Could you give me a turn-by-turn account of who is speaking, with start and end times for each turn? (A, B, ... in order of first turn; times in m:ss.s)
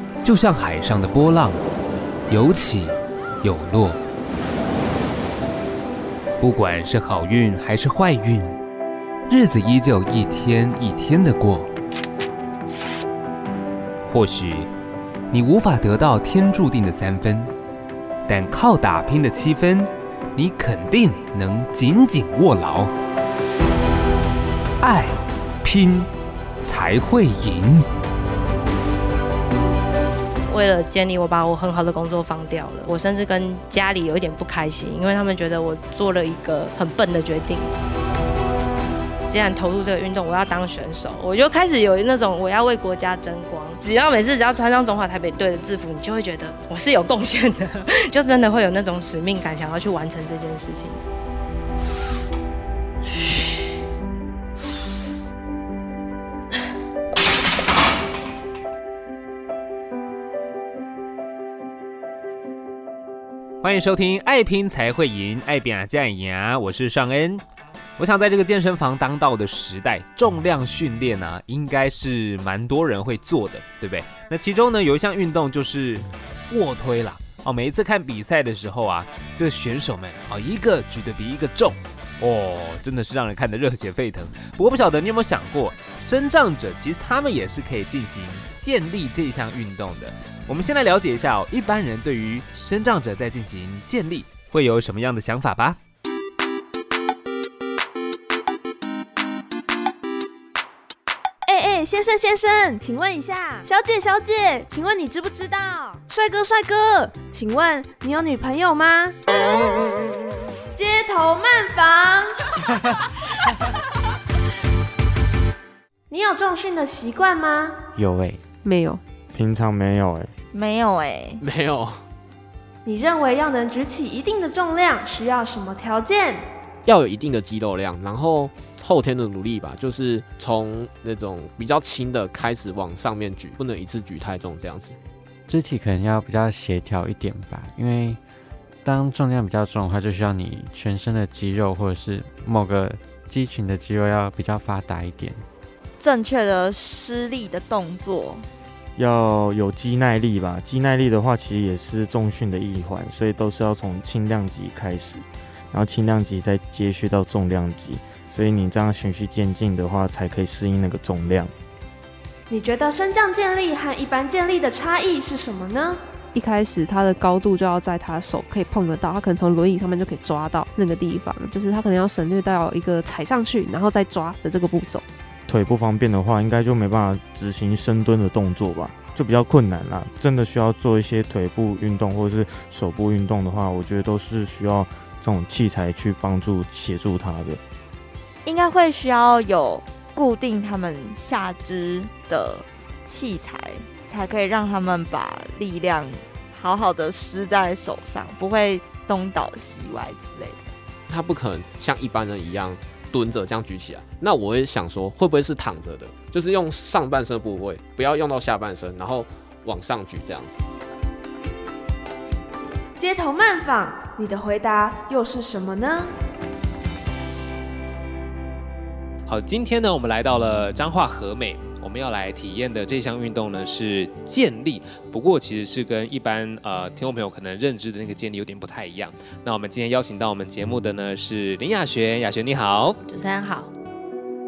0:00.2-0:01.6 A
0:02.3-0:04.0 A
0:06.4-0:08.6 A
0:09.3-0:11.7 A
0:14.0-0:14.7 A
0:15.3-0:17.5 A
0:18.3-0:22.9 A
0:24.8-0:26.1 A
0:26.6-0:27.8 A
0:30.5-0:37.7 B
0:39.3-0:51.0 B
1:03.6-1:07.4 A
1:08.0-1:35.8 A
1:41.5-1:49.1 C
1:50.7-1:52.4 C
1:56.1-1:57.8 C
1:57.9-1:58.4 D
1:58.6-1:59.0 E
1:59.3-2:00.3 F
2:00.5-2:01.4 G
2:01.4-2:02.0 H
2:02.8-2:06.4 C
2:06.8-2:15.0 H
2:15.5-2:18.2 D
2:18.8-2:25.4 D
2:26.0-2:28.4 G
2:29.0-2:41.5 F
2:42.5-2:46.0 C
2:46.4-2:55.0 E
2:55.5-3:07.6 F
3:08.4-3:20.7 G
3:21.1-3:30.6 H
3:33.0-3:36.1 C
3:39.3-3:53.0 A
3:53.1-3:53.7 B